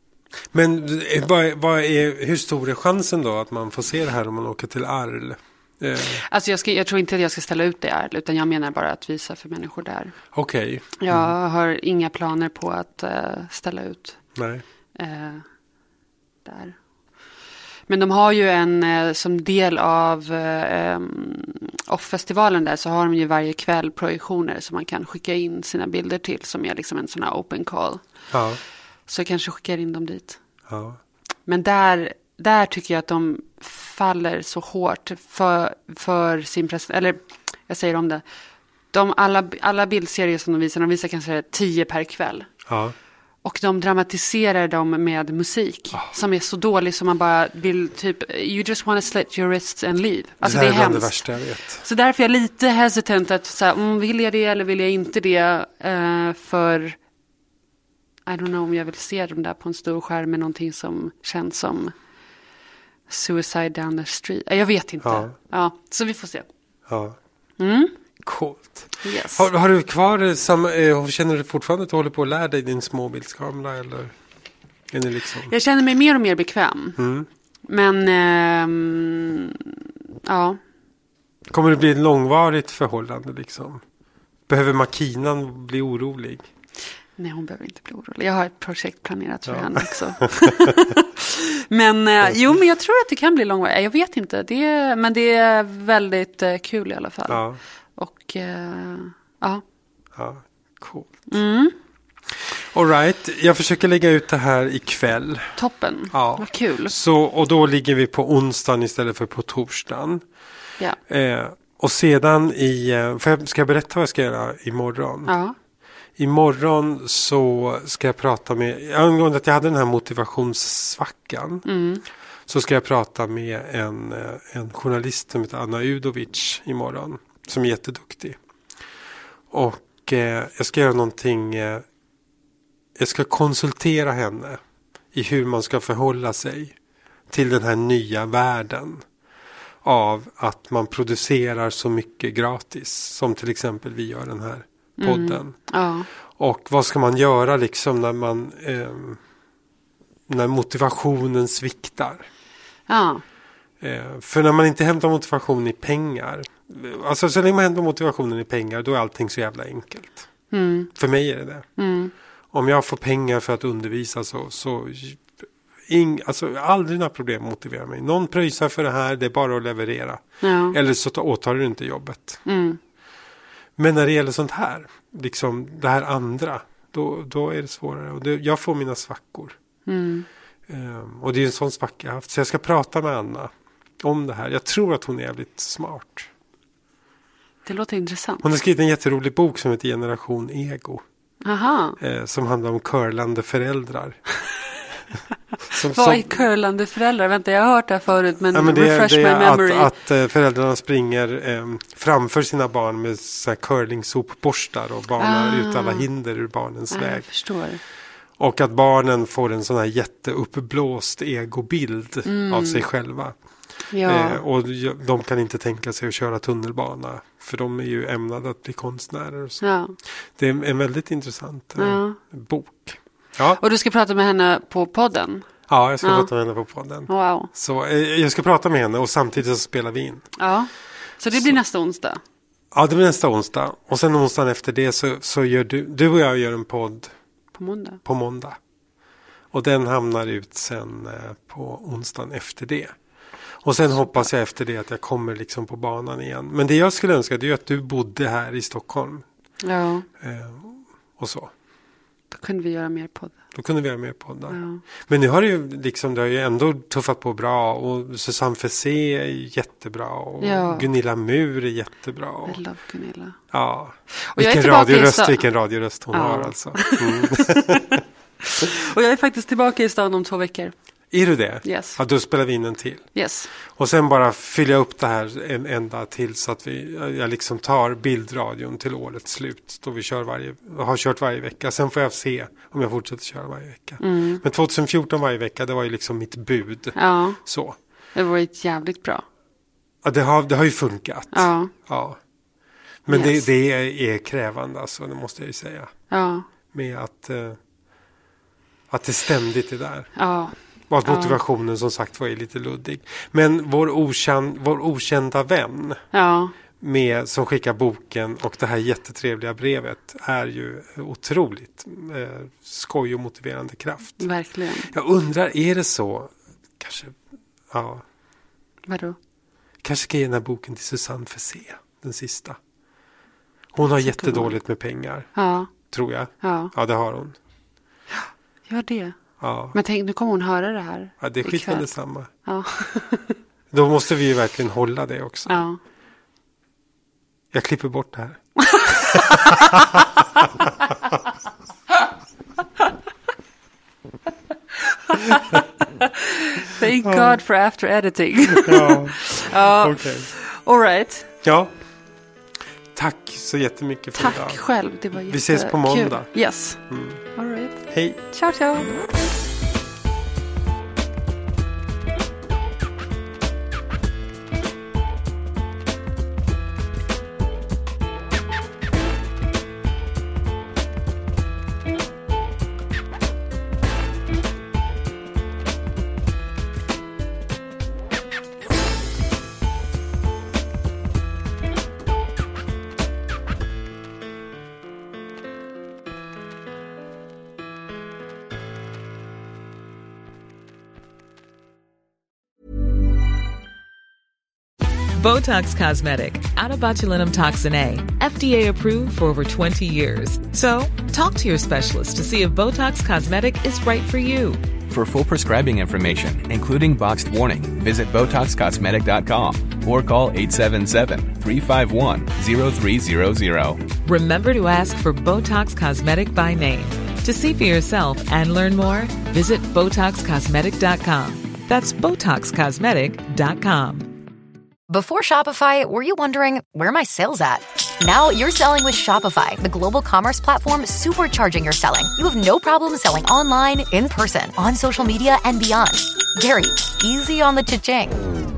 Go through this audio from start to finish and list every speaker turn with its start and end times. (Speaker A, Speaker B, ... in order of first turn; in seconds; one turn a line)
Speaker A: 0.5-6.2
Speaker B: 6.1-10.2
Speaker A: 10.3-11.3
Speaker B: 11.0-14.2
Speaker A: 14.3-14.6
Speaker B: 15.0-15.4
Speaker B: 16.4-16.8
Speaker B: 17.9-28.0
Speaker A: 28.3-28.6
Speaker B: 29.1-30.4
Speaker A: 30.7-31.0
Speaker B: 31.5-38.2
Speaker B: 38.9-42.5
Speaker A: 42.7-43.0
Speaker B: 43.4-51.2
Speaker A: 50.4-51.8
Speaker B: 51.8-57.0
Speaker B: 58.3-61.9
Speaker B: 63.1-66.5
Speaker A: 65.0-65.3
Speaker A: 66.9-67.2
Speaker B: 67.6-68.0
Speaker A: 68.2-74.1
Speaker B: 69.0-69.5
Speaker A: 74.9-75.5
Speaker B: 75.5-77.0
Speaker A: 77.0-77.3
Speaker B: 77.7-80.6
Speaker A: 81.5-83.8
Speaker A: 84.5-86.5
Speaker B: 87.2-97.4
Speaker A: 89.5-90.7
Speaker A: 97.3-97.6
Speaker B: 98.0-99.6
Speaker A: 100.2-101.1
Speaker B: 101.3-101.8
Speaker A: 102.3-105.6
Speaker B: 105.6-107.0
Speaker A: 106.1-110.2
Speaker A: 111.1-115.3
Speaker B: 115.3-115.6
Speaker A: 116.2-121.7
Speaker B: 121.7-122.0
Speaker A: 122.5-128.4
Speaker A: 129.5-131.8
Speaker A: 133.0-134.6
Speaker A: 135.1-136.8
Speaker A: 137.3-139.0
Speaker A: 139.8-145.6
Speaker B: 145.0-146.1
Speaker A: 146.4-149.2
Speaker A: 150.3-152.3
Speaker B: 152.9-153.2
Speaker A: 153.8-160.3
Speaker B: 160.5-160.9
Speaker A: 161.0-161.7
Speaker B: 161.8-162.1
Speaker A: 162.5-165.3
Speaker A: 165.9-172.4
Speaker B: 170.4-170.8
Speaker B: 172.5-172.8
Speaker A: 173.8-179.6
Speaker B: 179.9-180.3
Speaker A: 180.7-186.3
Speaker B: 187.7-188.4
Speaker A: 188.4-191.0
Speaker B: 191.4-192.0
Speaker A: 192.0-194.2
Speaker A: 195.7-196.3
Speaker B: 195.9-199.9
Speaker A: 198.5-207.3
Speaker B: 205.2-206.1
Speaker B: 206.9-207.8
Speaker A: 208.4-213.3
Speaker B: 212.2-212.9
Speaker B: 213.9-214.4
Speaker A: 214.1-219.6
Speaker B: 219.6-220.0
Speaker A: 220.4-223.6
Speaker B: 221.8-222.2
Speaker B: 223.6-225.5
Speaker A: 225.7-230.3
Speaker B: 226.0-226.3
Speaker B: 227.1-227.5
Speaker B: 230.4-232.2
Speaker A: 232.7-237.1
Speaker B: 237.5-238.0
Speaker A: 238.1-238.6
Speaker A: 239.5-243.0
Speaker A: 243.6-249.2
Speaker B: 243.9-244.3
Speaker B: 249.6-250.1
Speaker A: 250.2-251.5
Speaker B: 252.3-253.3
Speaker A: 253.5-262.6
Speaker B: 254.5-254.8
Speaker B: 260.4-260.9
Speaker B: 262.5-263.4
Speaker A: 263.5-268.0
Speaker B: 264.3-265.5
Speaker B: 266.1-270.7
Speaker A: 271.1-273.1
Speaker B: 271.6-272.0
Speaker B: 273.1-273.5
Speaker A: 273.8-287.8
Speaker B: 284.0-284.4
Speaker B: 286.9-287.4
Speaker B: 288.1-289.2
Speaker A: 290.0-292.2
Speaker B: 291.3-291.7
Speaker A: 293.1-295.9
Speaker B: 293.1-293.5
Speaker B: 296.1-296.5
Speaker A: 296.7-297.6
Speaker A: 298.9-300.1
Speaker B: 300.2-301.4
Speaker A: 300.9-306.0
Speaker B: 306.1-306.6
Speaker A: 306.8-314.3
Speaker B: 314.2-314.9
Speaker A: 314.9-317.2
Speaker A: 317.7-318.0
Speaker B: 318.9-319.2
Speaker A: 319.8-322.6
Speaker A: 323.7-327.4
Speaker B: 324.1-324.6
Speaker B: 325.4-325.7
Speaker B: 326.4-326.7
Speaker B: 328.1-329.2
Speaker A: 329.4-329.8
Speaker B: 329.7-331.9
Speaker A: 331.2-332.3
Speaker B: 332.4-333.4
Speaker A: 333.7-335.6
Speaker B: 335.5-335.8
Speaker A: 337.5-340.0
Speaker B: 338.7-339.6
Speaker B: 345.1-351.3
Speaker A: 347.0-347.4
Speaker A: 348.5-350.3
Speaker A: 351.4-351.7
Speaker A: 352.9-354.6
Speaker B: 354.2-358.9
Speaker A: 355.3-357.2
Speaker A: 357.9-358.2
Speaker C: 395.2-404.6
Speaker D: 404.9-413.9
Speaker C: 414.0-424.1
Speaker E: 424.9-438.2